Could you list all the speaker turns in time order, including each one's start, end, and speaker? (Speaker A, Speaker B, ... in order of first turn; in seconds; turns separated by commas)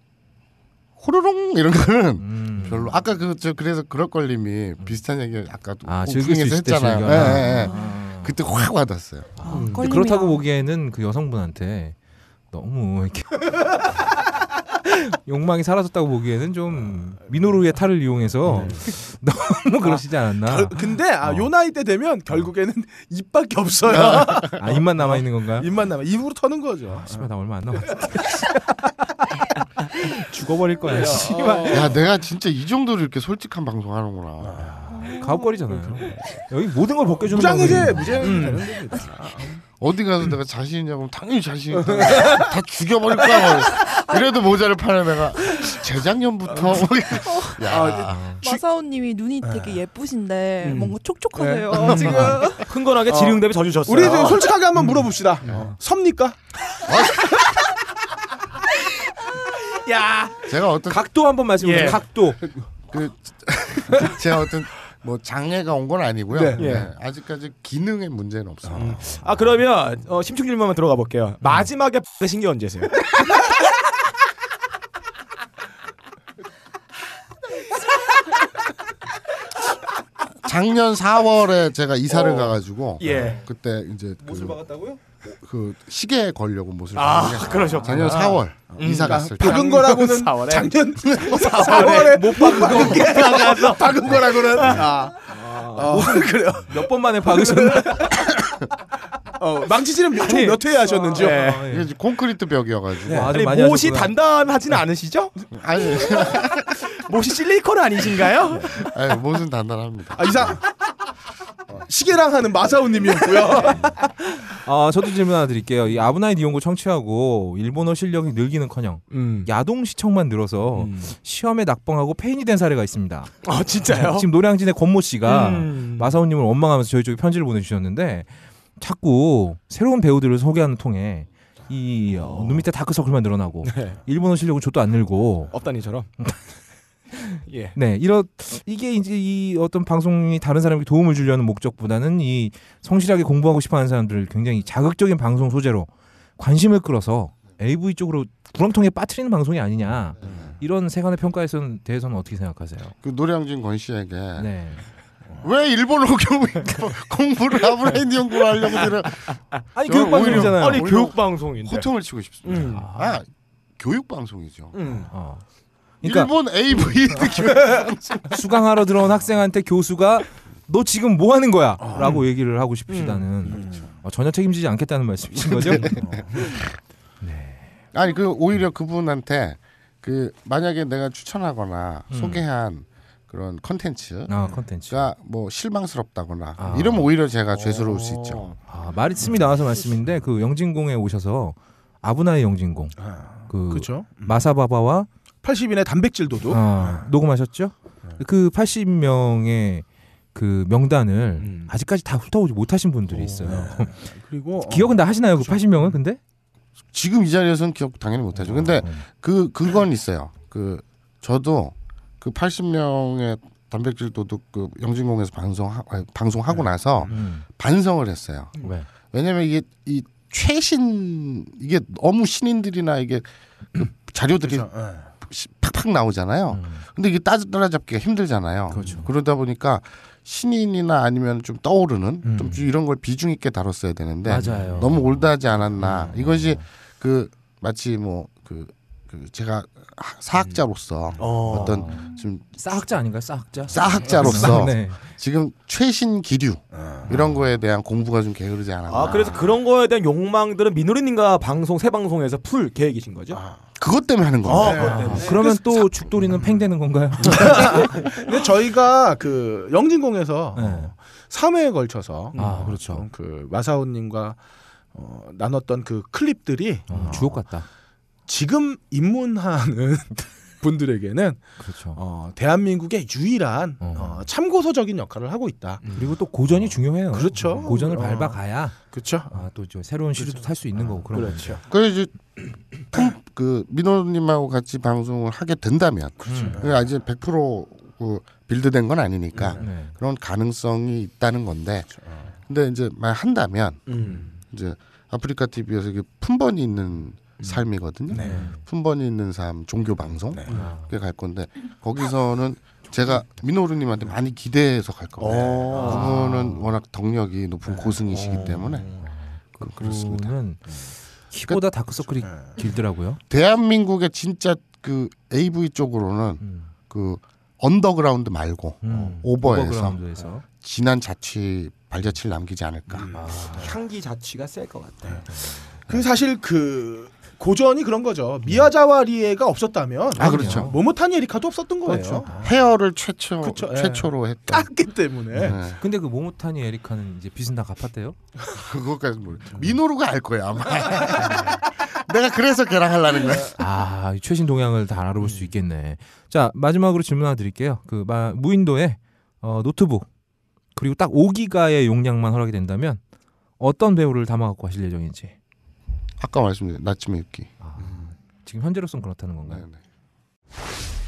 Speaker A: 1.0-9.3, Speaker B: 2.2-3.0, Speaker B: 5.8-8.4, Speaker C: 7.5-7.9, Speaker B: 9.4-11.9, Speaker C: 9.4-10.4, Speaker D: 9.5-9.8, Speaker B: 12.5-13.5, Speaker B: 14.8-21.5, Speaker E: 18.5-18.8, Speaker D: 18.5-18.8, Speaker E: 19.8-27.3, Speaker B: 24.4-25.7, Speaker B: 26.9-28.5, Speaker B: 29.9-31.7, Speaker E: 30.9-31.9, Speaker D: 31.0-31.8, Speaker A: 31.7-34.7, Speaker E: 34.4-34.8, Speaker B: 34.7-38.7, Speaker C: 34.9-35.9, Speaker E: 37.2-39.6, Speaker D: 38.2-38.7, Speaker A: 39.8-48.2, Speaker E: 41.9-42.5, Speaker C: 43.8-44.3, Speaker C: 47.2-47.6, Speaker E: 47.6-48.6, Speaker B: 48.1-48.4, Speaker C: 48.4-52.7, Speaker E: 49.4-49.8, Speaker D: 50.6-51.0, Speaker E: 51.4-56.4, Speaker D: 51.7-54.5, Speaker B: 54.8-55.7, Speaker A: 56.9-57.4, Speaker D: 59.5-60.5, Speaker A: 60.5-61.1, Speaker B: 60.9-62.5, Speaker D: 61.6-62.0, Speaker A: 62.9-69.2, Speaker E: 66.3-66.8, Speaker D: 66.5-66.9, Speaker D: 68.8-73.5, Speaker A: 80.4-84.6, Speaker D: 83.0-83.4, Speaker B: 83.0-83.4, Speaker B: 84.2-85.0, Speaker A: 85.2-89.8, Speaker D: 86.9-94.9, Speaker B: 87.7-88.2, Speaker E: 88.7-98.6, Speaker B: 91.8-93.2, Speaker B: 95.3-98.2, Speaker E: 99.4-101.6, Speaker D: 100.1-101.6, Speaker B: 100.8-101.9, Speaker A: 101.6-103.3, Speaker B: 103.1-104.1, Speaker D: 103.3-105.3, Speaker A: 105.5-106.9, Speaker D: 106.8-108.8, Speaker A: 108.6-110.6, Speaker E: 110.2-110.6, Speaker E: 111.7-113.9, Speaker B: 114.5-123.3, Speaker D: 119.1-119.5, Speaker D: 120.8-121.1, Speaker D: 123.4-124.3, Speaker B: 123.9-135.5, Speaker D: 125.2-126.1, Speaker D: 132.2-132.6, Speaker D: 133.6-134.0, Speaker D: 135.5-136.1, Speaker B: 136.2-136.5, Speaker B: 137.2-152.9, Speaker D: 137.5-137.7, Speaker A: 150.2-150.5, Speaker A: 153.0-154.5, Speaker B: 154.4-154.8, Speaker A: 155.4-163.3, Speaker D: 158.8-159.3, Speaker B: 159.7-160.9, Speaker D: 160.1-161.9, Speaker D: 162.4-162.8, Speaker B: 162.5-163.2, Speaker A: 163.8-164.8, Speaker D: 164.7-165.1, Speaker E: 164.8-165.1, Speaker B: 165.1-165.4, Speaker B: 166.0-166.3, Speaker A: 166.0-168.4, Speaker B: 168.3-176.4, Speaker E: 171.8-172.2, Speaker D: 172.9-173.2, Speaker E: 173.4-173.9, Speaker A: 175.4-176.7, Speaker E: 176.0-176.4, Speaker B: 177.2-177.7, Speaker A: 177.9-188.5, Speaker B: 182.1-182.4, Speaker B: 184.3-185.1, Speaker B: 186.6-187.1, Speaker E: 187.6-188.4, Speaker B: 188.7-195.1, Speaker E: 193.0-194.4, Speaker E: 195.4-197.1, Speaker B: 196.5-204.0, Speaker E: 203.1-205.9, Speaker B: 204.6-206.2, Speaker A: 206.9-224.7, Speaker B: 208.6-209.1, Speaker B: 217.1-217.4, Speaker B: 218.6-218.9, Speaker E: 224.4-225.1, Speaker A: 225.2-242.4, Speaker B: 226.5-226.8, Speaker B: 228.7-229.1, Speaker B: 232.3-232.6, Speaker B: 234.3-236.6, Speaker D: 241.2-241.8, Speaker B: 241.5-242.0, Speaker B: 242.6-245.0, Speaker A: 243.7-249.4, Speaker E: 246.8-247.1, Speaker B: 247.1-247.4, Speaker D: 248.9-253.4, Speaker B: 249.1-249.5, Speaker E: 253.3-253.6, Speaker A: 253.8-255.0, Speaker D: 254.4-255.4, Speaker E: 254.4-256.4, Speaker B: 254.8-258.1, Speaker E: 257.2-264.4, Speaker B: 260.5-260.9, Speaker D: 262.3-262.7, Speaker B: 262.4-263.1, Speaker E: 264.9-267.4, Speaker B: 266.9-267.7, Speaker E: 268.3-276.2, Speaker B: 271.6-272.0, Speaker B: 273.8-274.2, Speaker B: 275.9-281.6, Speaker E: 277.1-279.4, Speaker E: 280.2-281.6, Speaker A: 281.6-309.0, Speaker E: 286.2-286.7, Speaker B: 286.3-286.6, Speaker E: 289.3-289.6, Speaker B: 289.6-289.9, Speaker E: 292.0-292.3, Speaker E: 293.9-294.3, Speaker E: 297.4-298.5, Speaker B: 298.1-298.6, Speaker E: 300.3-300.6, Speaker B: 300.5-300.9, Speaker D: 305.2-306.1, Speaker E: 305.3-306.0, Speaker B: 305.8-306.7, Speaker E: 308.1-309.0, Speaker B: 308.9-313.2, Speaker A: 309.5-310.3, Speaker E: 312.2-312.5, Speaker A: 313.3-320.0, Speaker B: 316.4-316.7, Speaker B: 318.8-320.4, Speaker A: 320.5-323.2, Speaker E: 322.9-323.6, Speaker B: 323.1-323.7, Speaker D: 323.5-325.2, Speaker B: 325.3-325.6, Speaker E: 325.9-332.4, Speaker A: 330.1-330.8, Speaker B: 330.1-330.8, Speaker A: 331.8-334.7, Speaker E: 333.4-335.6, Speaker A: 335.3-335.8, Speaker B: 335.4-338.1, Speaker A: 338.5-343.6, Speaker B: 343.6-350.1, Speaker E: 345.2-345.5, Speaker B: 350.7-353.0, Speaker B: 353.6-355.3, Speaker A: 356.2-357.5, Speaker B: 357.6-359.6, Speaker E: 357.8-358.1, Speaker A: 359.5-359.8